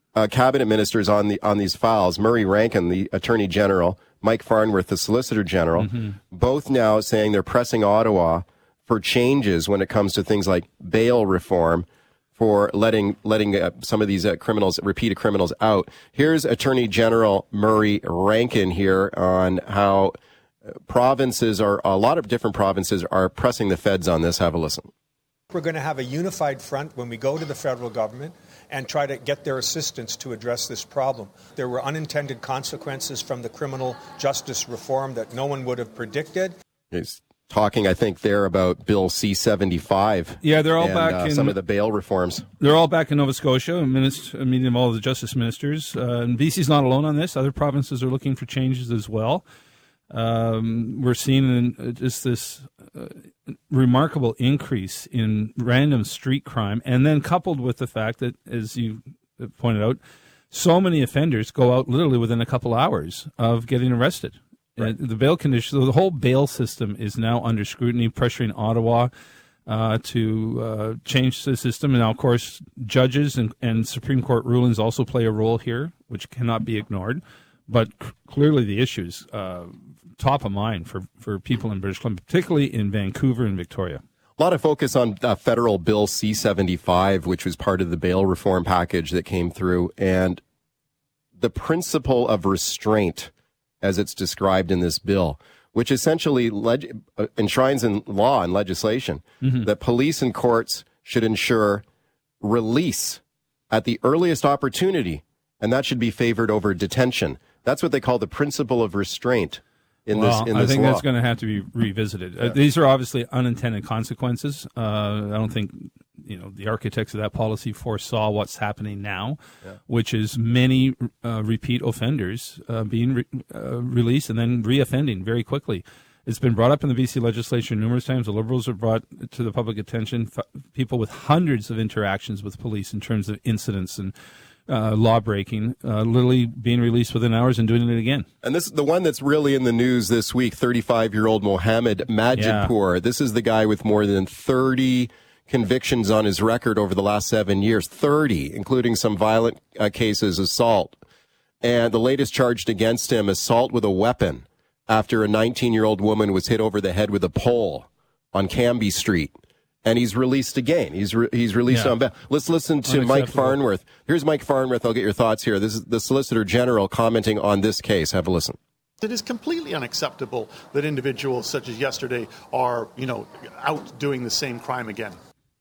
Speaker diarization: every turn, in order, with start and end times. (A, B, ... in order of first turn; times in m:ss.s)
0:00.2-0:20.1 A
0:20.9-0:24.9 A
0:25.5-0:36.5 B
0:36.9-0:42.5 A
0:40.4-0:41.6 C
0:42.6-0:49.4 C
0:50.1-0:53.2 C
0:53.7-1:00.0 C
1:00.5-1:09.1 C
1:09.7-1:24.0 C
1:24.4-1:30.4 A
1:31.4-1:41.8 A
1:42.4-1:51.0 A
1:50.1-2:14.1 C
2:14.7-2:18.3 C
2:18.4-2:31.0 A
2:22.4-2:22.7 C
2:31.6-2:39.3 A
2:39.8-2:48.6 A
2:41.7-2:42.0 C
2:42.9-2:43.6 C
2:49.0-2:55.2 D